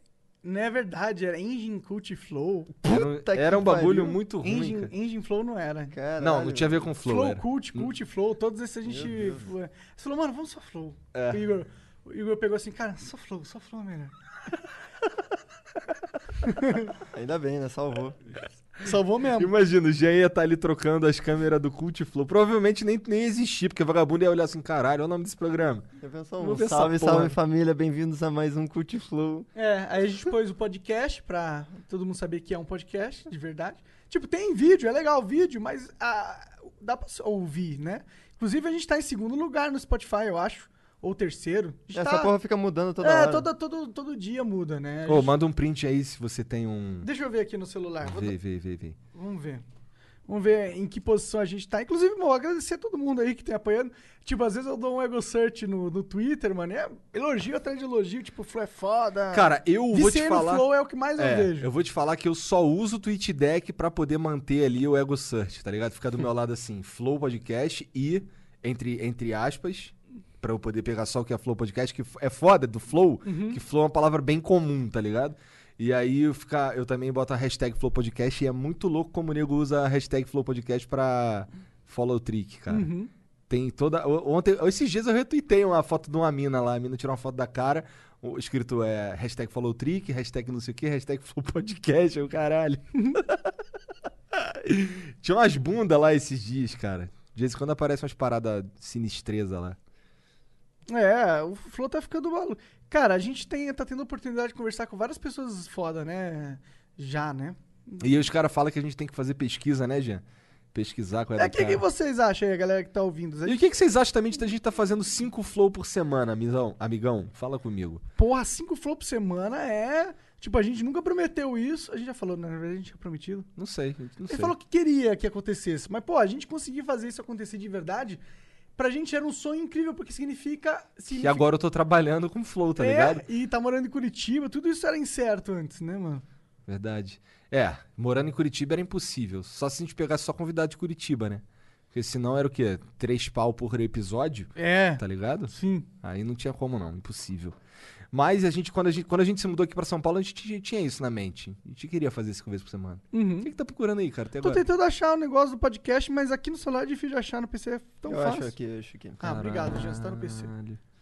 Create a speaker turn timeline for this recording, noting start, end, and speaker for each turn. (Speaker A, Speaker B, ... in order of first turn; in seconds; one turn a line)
Speaker A: 0.4-2.8
Speaker B: 2.8-4.9
Speaker C: 2.9-4.2
Speaker A: 4.4-6.0
Speaker C: 5.9-6.9
Speaker B: 6.2-7.9
Speaker A: 7.0-14.1
Speaker C: 8.8-9.5
Speaker B: 11.1-11.5
Speaker A: 16.4-16.9
Speaker C: 17.1-18.2
Speaker A: 18.8-19.5
Speaker B: 19.4-25.9
Speaker C: 26.0-29.5
Speaker B: 26.4-27.4
Speaker A: 29.6-42.3
Speaker C: 41.9-43.5
Speaker A: 43.0-45.4
Speaker B: 45.1-47.1
Speaker A: 47.0-48.4
Speaker B: 48.0-49.0
Speaker A: 49.1-49.6
Speaker A: 50.3-61.7
Speaker B: 59.3-82.9
Speaker A: 73.2-73.6
Speaker A: 82.7-83.1
Speaker B: 83.5-93.5
Speaker A: 93.0-93.2
Speaker B: 94.3-99.8
Speaker A: 100.9-108.2
Speaker B: 108.0-111.8
Speaker A: 111.4-113.6
Speaker B: 113.5-118.0
Speaker A: 118.2-123.5
Speaker B: 123.6-124.5
Speaker A: 124.3-128.2
Speaker A: 128.8-131.4
Speaker B: 131.2-133.2
Speaker A: 132.8-136.2
Speaker B: 136.7-147.6
Speaker A: 144.6-145.9
Speaker B: 148.1-154.6
Speaker A: 153.1-153.5
Speaker A: 154.4-158.5
Speaker C: 158.1-159.3
Speaker A: 159.2-160.5
Speaker B: 159.2-160.8